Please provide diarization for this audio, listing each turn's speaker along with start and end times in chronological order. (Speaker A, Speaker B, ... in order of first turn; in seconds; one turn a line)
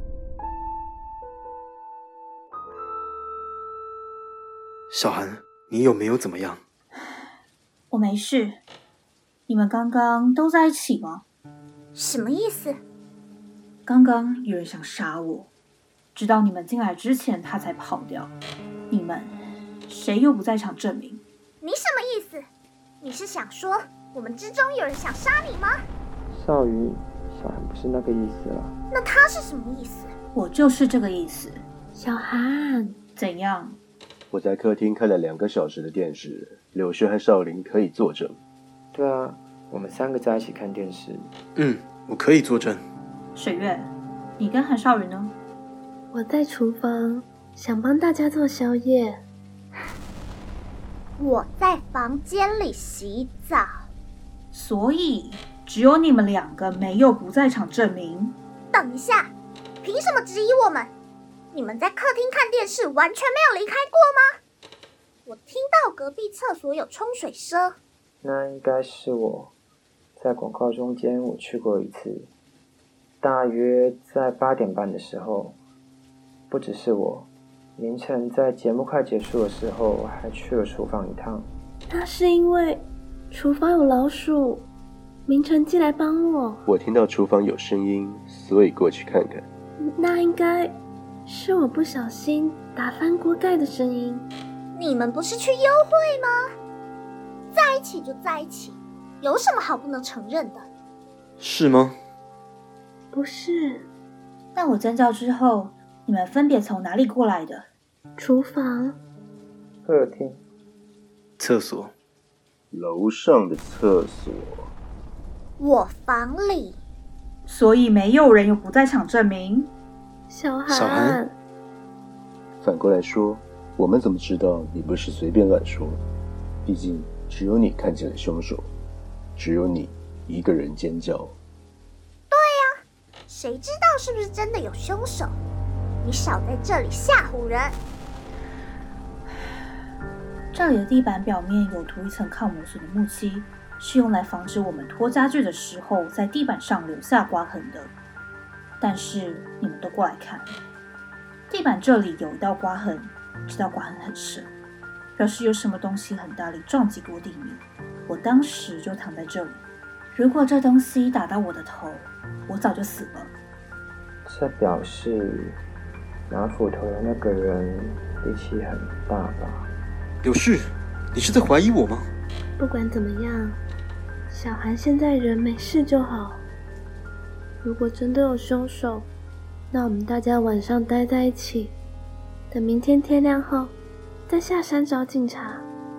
Speaker A: 4.9-6.6
Speaker B: 7.9-8.6
Speaker B: 9.5-11.2
Speaker C: 11.9-12.8
Speaker B: 13.9-15.5
Speaker B: 16.1-18.3
Speaker B: 18.9-19.4
Speaker B: 19.9-21.2
Speaker C: 21.6-22.4
Speaker C: 23.0-25.7
Speaker D: 26.3-28.8
Speaker C: 28.9-30.1
Speaker B: 30.4-31.6
Speaker E: 31.9-33.0
Speaker B: 33.2-33.8
Speaker F: 34.3-38.4
Speaker D: 38.9-41.3
Speaker A: 41.6-42.8
Speaker B: 43.4-45.4
Speaker E: 46.1-49.2
Speaker C: 51.2-53.7
Speaker B: 54.5-58.4
Speaker C: 58.7-60.9
Speaker C: 61.5-64.2
Speaker C: 65.3-67.8
Speaker D: 68.2-69.5
Speaker D: 70.2-72.3
Speaker D: 73.2-75.6
Speaker D: 76.5-81.5
Speaker E: 81.9-84.7
Speaker E: 85.3-86.6
Speaker F: 86.7-89.5
Speaker E: 89.9-90.7
Speaker E: 91.3-94.3
Speaker C: 94.8-96.3
Speaker C: 97.5-100.7
Speaker A: 101.4-102.0
Speaker E: 103.1-103.9
Speaker B: 104.5-107.7
Speaker E: 108.2-109.0
Speaker D: 109.9-110.4
Speaker A: 111.4-111.9
Speaker F: 112.7-114.7
Speaker C: 115.6-116.8
Speaker B: 117.5-119.7
Speaker E: 120.3-121.3
Speaker A: 120.7-121.2
Speaker F: 122.6-126.0
Speaker F: 126.7-128.7
Speaker F: 129.4-131.4
Speaker C: 132.3-135.4
Speaker C: 136.0-137.8
Speaker B: 140.5-147.9
Speaker B: 148.8-150.6
Speaker B: 151.5-154.5
Speaker B: 155.2-159.6
Speaker B: 160.1-163.3
Speaker D: 164.3-165.6
Speaker D: 166.3-169.7
Speaker A: 170.2-172.1
Speaker E: 172.6-173.6
Speaker E: 174.3-176.4
Speaker E: 177.6-179.1
Speaker E: 179.7-181.8
Speaker E: 182.5-183.8
Speaker E: 184.3-185.7